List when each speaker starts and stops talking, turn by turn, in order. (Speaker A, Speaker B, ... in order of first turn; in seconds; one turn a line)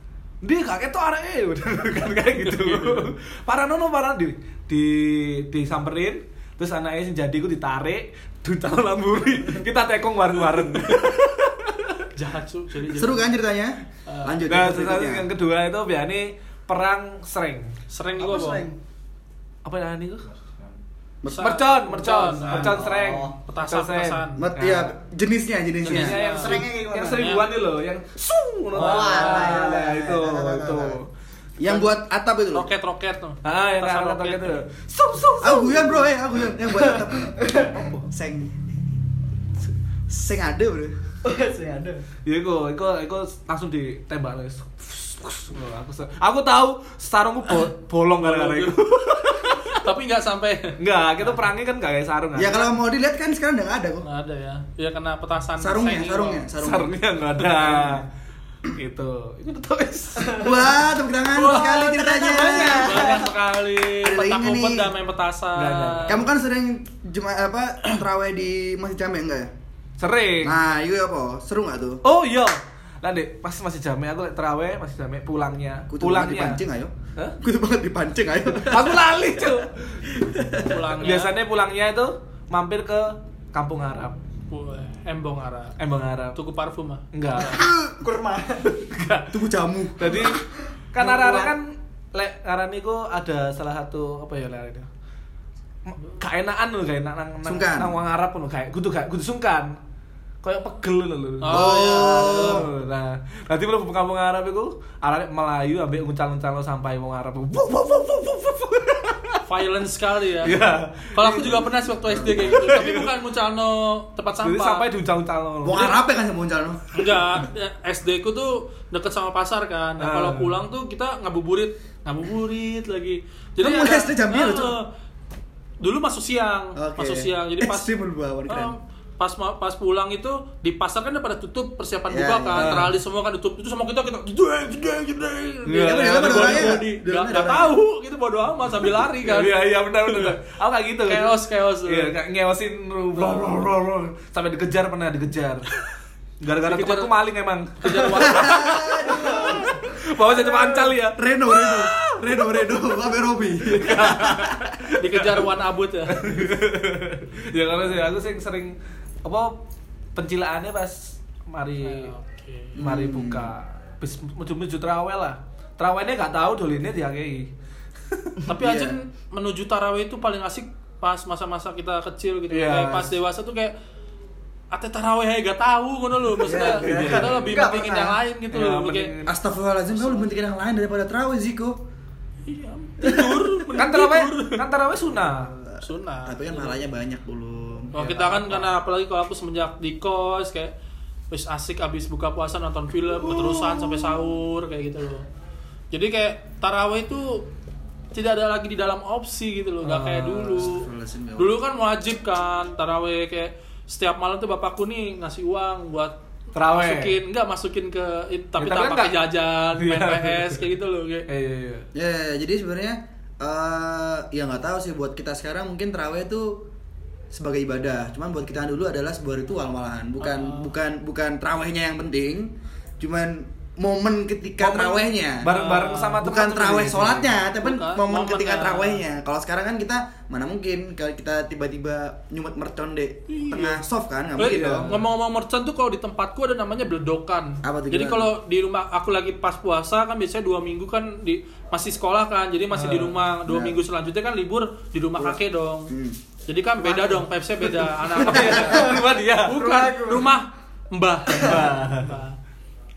Speaker A: 0.4-12.1
Speaker B: 12.1-13.3
Speaker C: 12.9-15.3
Speaker B: 14.1-14.4
Speaker A: 14.5-17.7
Speaker B: 17.9-18.7
Speaker D: 18.2-18.8
Speaker A: 19.6-20.3
Speaker C: 21.2-21.5
Speaker B: 21.3-22.8
Speaker A: 21.4-24.9
Speaker D: 22.1-23.4
Speaker B: 23.4-24.4
Speaker C: 24.4-26.2
Speaker B: 25.8-26.6
Speaker A: 25.8-31.1
Speaker D: 26.0-27.4
Speaker B: 27.1-27.5
Speaker D: 28.7-31.0
Speaker B: 28.8-29.6
Speaker C: 31.6-32.7
Speaker B: 32.5-34.6
Speaker A: 33.4-36.1
Speaker C: 35.4-38.5
Speaker D: 36.7-37.9
Speaker C: 40.1-40.9
Speaker D: 41.2-42.0
Speaker A: 42.2-49.8
Speaker B: 48.2-51.4
Speaker A: 50.8-52.7
Speaker C: 52.4-54.0
Speaker B: 54.0-56.5
Speaker C: 55.6-58.0
Speaker A: 56.6-58.1
Speaker A: 58.7-60.6
Speaker C: 60.4-63.2
Speaker B: 61.3-66.2
Speaker D: 61.4-63.3
Speaker C: 63.9-64.9
Speaker A: 65.5-66.2
Speaker C: 66.0-69.5
Speaker A: 70.0-70.6
Speaker C: 70.4-72.0
Speaker A: 72.0-76.6
Speaker C: 75.9-79.1
Speaker A: 78.6-80.1
Speaker C: 80.2-80.5
Speaker B: 80.5-81.3
Speaker A: 80.9-84.2
Speaker B: 84.5-85.7
Speaker A: 85.8-86.4
Speaker B: 86.3-87.7
Speaker A: 87.1-87.7
Speaker D: 87.4-88.8
Speaker A: 88.9-94.9
Speaker C: 89.3-90.2
Speaker D: 91.0-91.5
Speaker A: 95.8-99.8
Speaker C: 97.4-98.0
Speaker A: 100.4-109.4
Speaker B: 101.4-102.6
Speaker C: 101.5-102.7
Speaker B: 109.4-110.6
Speaker A: 110.4-111.7
Speaker B: 111.1-114.8
Speaker C: 112.1-112.5
Speaker A: 112.5-113.1
Speaker A: 114.4-116.0
Speaker C: 115.6-117.0
Speaker B: 116.9-124.9
Speaker A: 120.0-120.6
Speaker C: 123.6-124.7
Speaker B: 125.8-127.9
Speaker C: 126.8-128.7
Speaker B: 128.5-140.5
Speaker C: 132.1-132.8
Speaker A: 132.6-132.9
Speaker A: 135.7-136.8
Speaker C: 135.7-137.8
Speaker A: 138.8-145.7
Speaker B: 141.1-142.1
Speaker A: 146.4-152.5
Speaker B: 146.6-147.1
Speaker B: 147.8-149.5
Speaker C: 148.2-149.7
Speaker C: 151.0-154.7
Speaker A: 153.6-155.5
Speaker B: 155.0-156.2
Speaker A: 156.1-159.6
Speaker A: 160.1-162.1
Speaker B: 161.8-162.8
Speaker A: 162.8-167.5
Speaker C: 162.8-163.6
Speaker A: 168.1-168.4
Speaker B: 168.5-173.7
Speaker C: 168.5-169.0
Speaker A: 172.5-173.2
Speaker B: 174.7-179.1
Speaker D: 176.4-178.2
Speaker A: 176.4-177.7
Speaker C: 176.9-177.3
Speaker A: 178.5-179.4
Speaker C: 179.2-181.8
Speaker B: 179.9-180.3
Speaker B: 182.4-184.6
Speaker A: 183.7-185.5
Speaker C: 185.3-187.9
Speaker B: 185.8-186.8
Speaker B: 187.9-190.7
Speaker A: 187.9-188.8
Speaker B: 191.3-195.2
Speaker A: 193.2-194.2
Speaker B: 195.9-197.5
Speaker B: 198.1-200.8
Speaker A: 199.8-200.7
Speaker C: 200.6-201.6
Speaker B: 201.4-206.2
Speaker A: 206.5-207.2
Speaker B: 206.7-211.3
Speaker A: 208.6-210.6
Speaker A: 211.3-211.9
Speaker C: 211.9-216.6
Speaker C: 217.3-225.5
Speaker B: 220.2-220.7
Speaker A: 224.6-227.3
Speaker B: 225.4-226.2
Speaker C: 226.2-234.9
Speaker B: 227.6-229.0
Speaker B: 233.3-233.8
Speaker B: 234.4-245.9
Speaker A: 234.4-235.0
Speaker C: 237.6-238.3
Speaker A: 242.7-243.2
Speaker C: 243.4-243.8
Speaker C: 245.2-246.2
Speaker B: 246.5-252.4
Speaker A: 248.1-249.6
Speaker D: 248.6-250.4
Speaker A: 251.4-252.1